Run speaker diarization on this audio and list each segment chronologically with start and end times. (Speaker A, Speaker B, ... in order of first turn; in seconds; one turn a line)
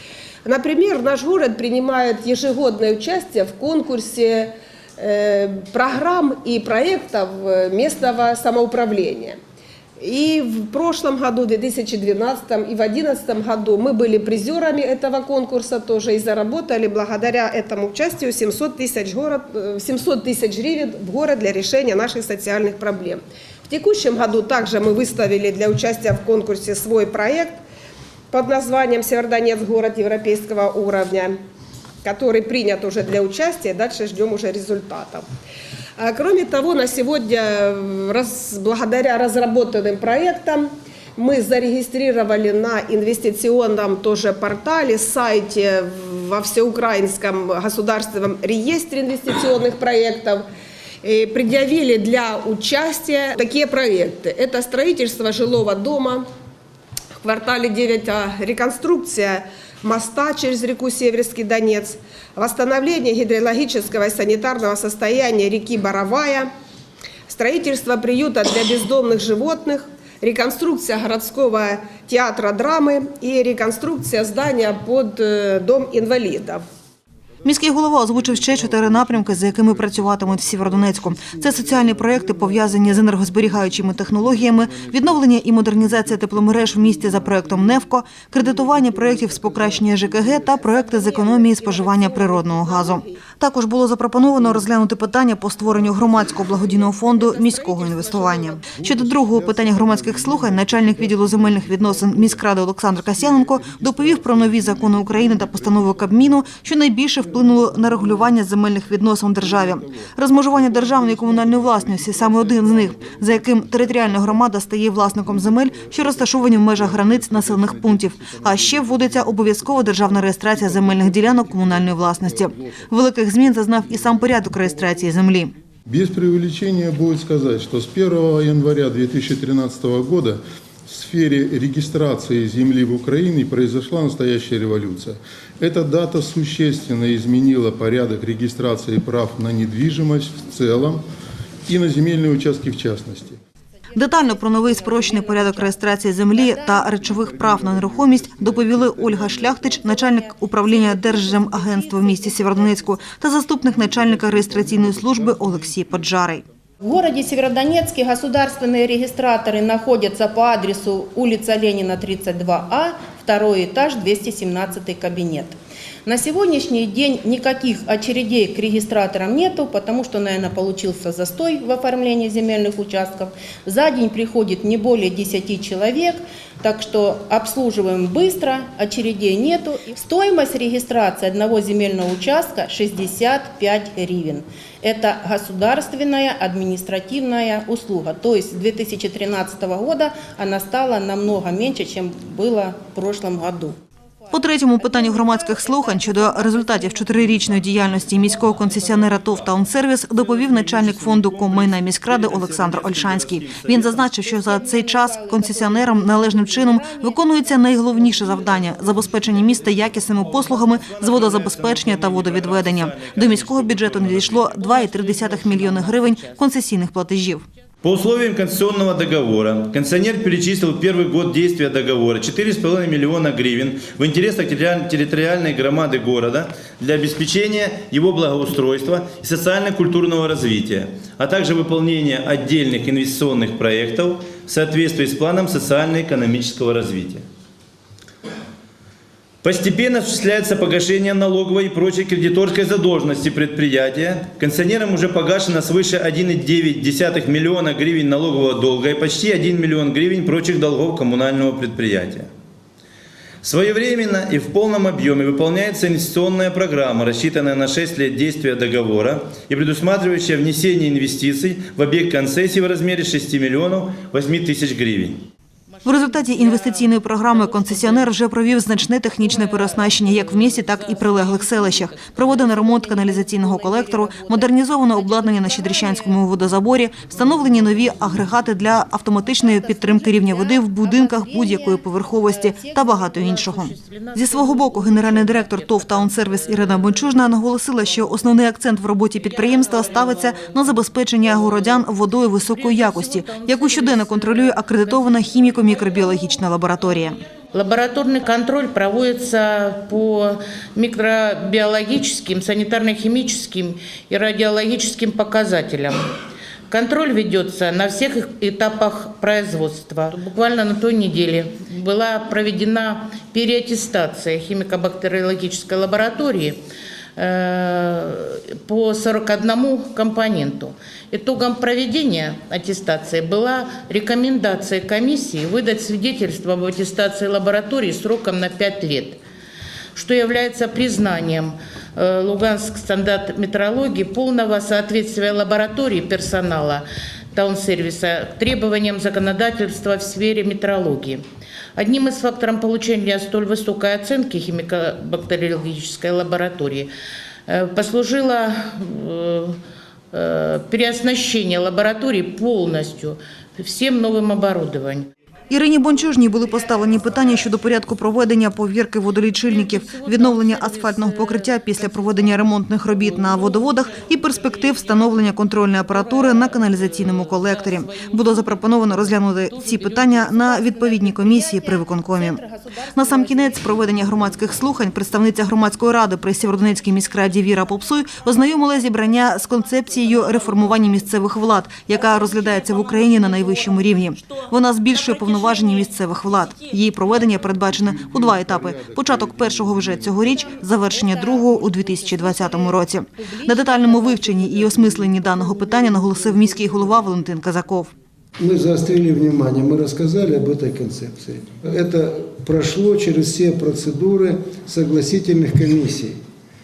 Speaker A: 0.4-9.4
Speaker A: 10.0-27.6
Speaker A: 28.3-31.4
Speaker A: 32.0-35.2
Speaker A: 36.0-50.4
Speaker A: 51.0-56.2
Speaker A: 57.2-66.5
Speaker A: 67.3-76.6
Speaker B: 77.4-125.5
Speaker A: 90.9-93.1
Speaker A: 97.6-98.5
Speaker C: 104.3-104.9
Speaker C: 110.6-114.3
Speaker C: 116.0-122.6
Speaker C: 125.8-141.0
Speaker C: 141.7-143.4
Speaker B: 143.9-156.4
Speaker D: 144.0-147.0
Speaker D: 149.6-153.0
Speaker D: 156.8-165.5
Speaker D: 166.1-193.8
Speaker B: 194.3-217.4
Speaker D: 194.8-197.4
Speaker E: 200.1-204.2
Speaker D: 204.4-209.3
Speaker E: 209.7-214.6
Speaker F: 214.5-216.4
Speaker E: 217.8-237.2
Speaker E: 239.4-252.3
Speaker E: 253.4-265.2
Speaker F: 265.7-268.1
Speaker B: 265.8-297.2
Speaker F: 269.2-272.3
Speaker D: 272.0-276.2
Speaker D: 277.1-277.8
Speaker D: 279.3-283.1
Speaker F: 283.1-287.3
Speaker F: 289.2-291.9
Speaker F: 292.4-296.1
Speaker F: 297.5-306.0
Speaker F: 306.7-316.6
Speaker F: 317.1-329.2
Speaker F: 329.9-341.2
Speaker F: 341.8-346.9
Speaker F: 347.5-349.6
Speaker F: 350.1-355.1
Speaker B: 355.5-372.4
Speaker F: 359.4-362.4
Speaker F: 363.1-365.0
Speaker F: 365.9-370.6
Speaker D: 370.5-374.4
Speaker B: 372.9-397.9
Speaker C: 387.5-390.3
Speaker D: 390.1-397.1
Speaker G: 398.4-406.2